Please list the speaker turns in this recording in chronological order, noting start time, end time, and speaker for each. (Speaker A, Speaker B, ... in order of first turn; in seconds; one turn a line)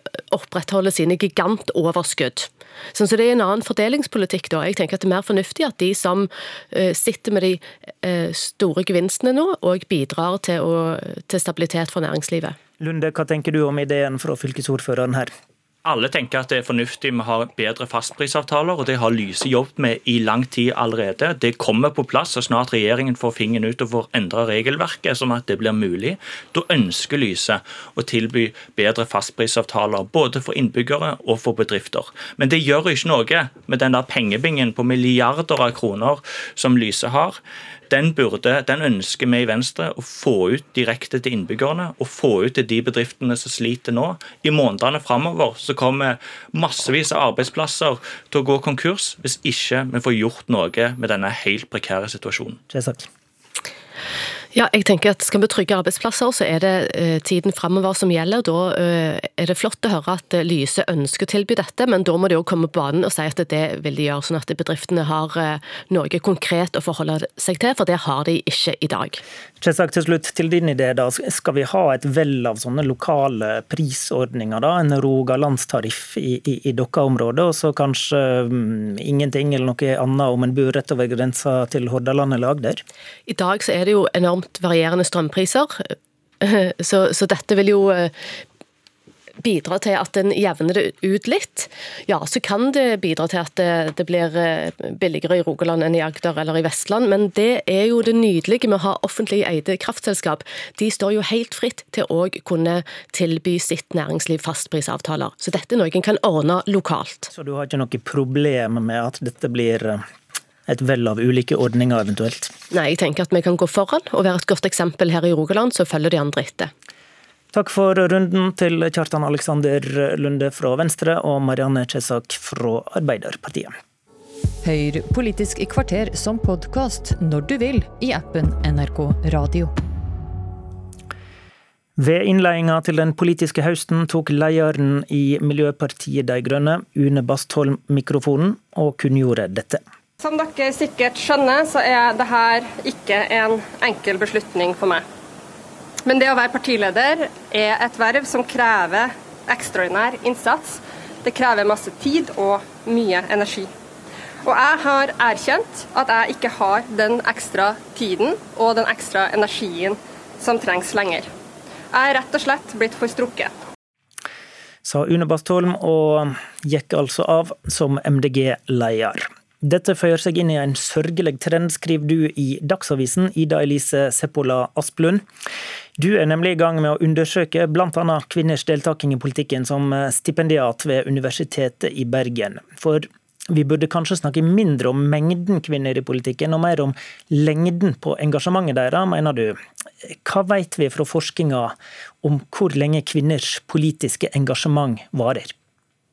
Speaker A: 0.2-12.6
Speaker B: 12.8-15.3
Speaker C: 15.8-52.6
Speaker B: 52.7-53.1
Speaker A: 54.5-69.2
Speaker B: 69.6-82.8
Speaker A: 83.3-88.1
Speaker A: 89.4-107.3
Speaker B: 107.3-110.0
Speaker B: 110.7-112.5
Speaker A: 112.7-116.7
Speaker B: 117.5-123.7
Speaker D: 124.6-129.7
Speaker B: 132.0-139.8
Speaker E: 140.2-145.1
Speaker E: 146.0-153.7
Speaker E: 154.4-161.3
Speaker E: 161.9-163.5
Speaker B: 164.8-175.2
Speaker B: 176.0-189.5
Speaker B: 190.2-195.5